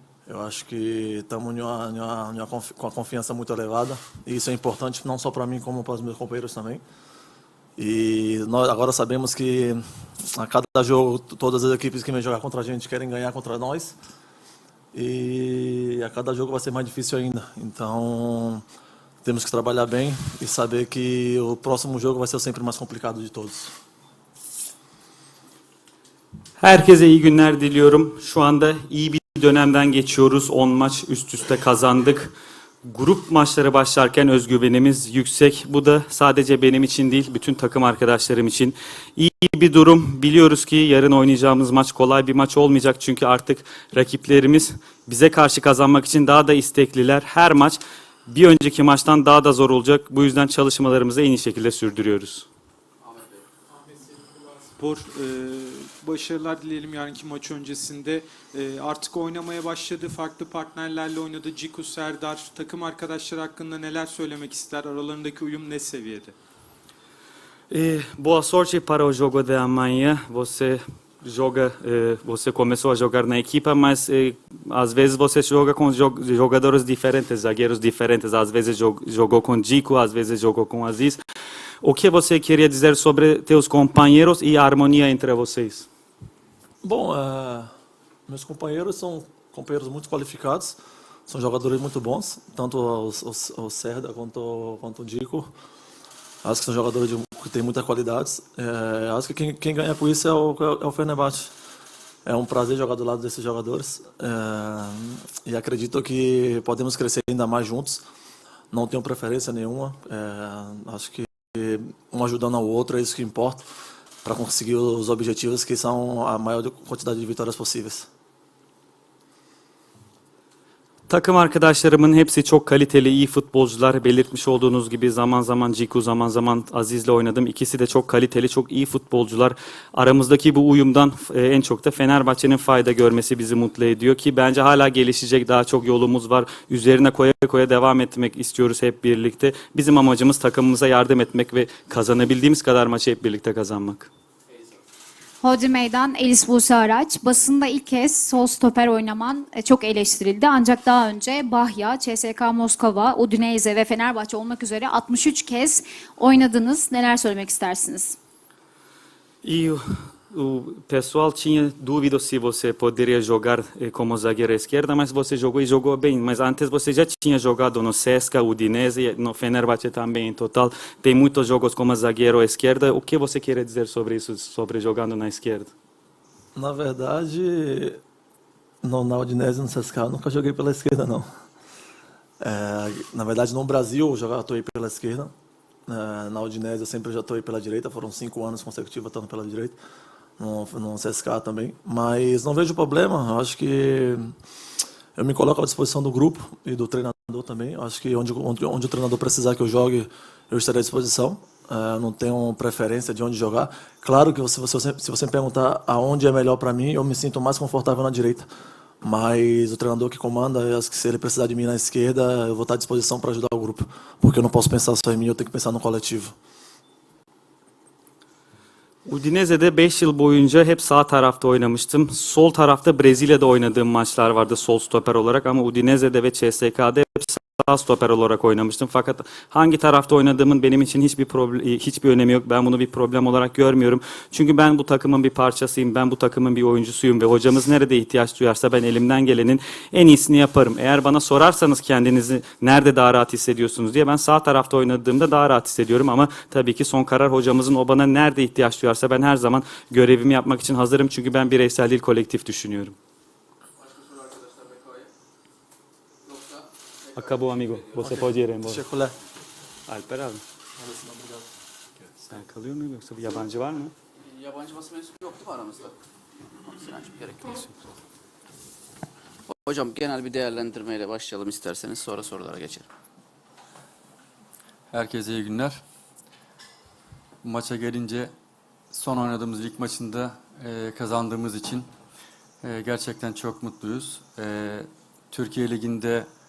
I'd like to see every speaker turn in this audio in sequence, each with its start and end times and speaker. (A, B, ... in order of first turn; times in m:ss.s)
0:00.2-0:06.8 A
0:07.8-0:09.8 A
0:10.3-0:14.0 A
0:14.9-0:18.6 A
0:19.2-0:23.7 A
0:26.6-0:32.3 B
0:32.8-0:52.4 B
0:53.9-1:06.3 C
1:07.7-1:21.2 B
1:21.8-1:25.8 B
1:26.8-1:27.7 A
1:28.3-1:35.5 A
1:36.4-1:41.5 A
1:42.2-1:48.0 A
1:48.7-1:53.7 A
1:54.2-1:58.1 A
2:01.1-2:24.1 B
2:25.4-2:38.2 D
2:39.4-2:55.7 B
2:56.6-2:58.0 A
2:58.8-3:01.3 A
3:02.4-3:05.3 A
3:05.9-3:09.8 A
3:10.4-3:14.3 A
3:15.2-3:28.5 A
3:29.0-3:36.3 A
3:39.0-4:13.0 B
4:14.1-4:15.0 E
4:17.1-4:18.9 B
4:18.0-4:19.1 A
4:19.9-4:20.4 B
4:22.2-4:23.9 B
4:24.3-4:25.9 E
4:26.6-4:27.6 E
4:29.5-4:32.9 E
4:34.9-4:35.8 F
4:37.4-4:38.3 F
4:38.9-4:41.8 F
4:42.6-4:46.3 F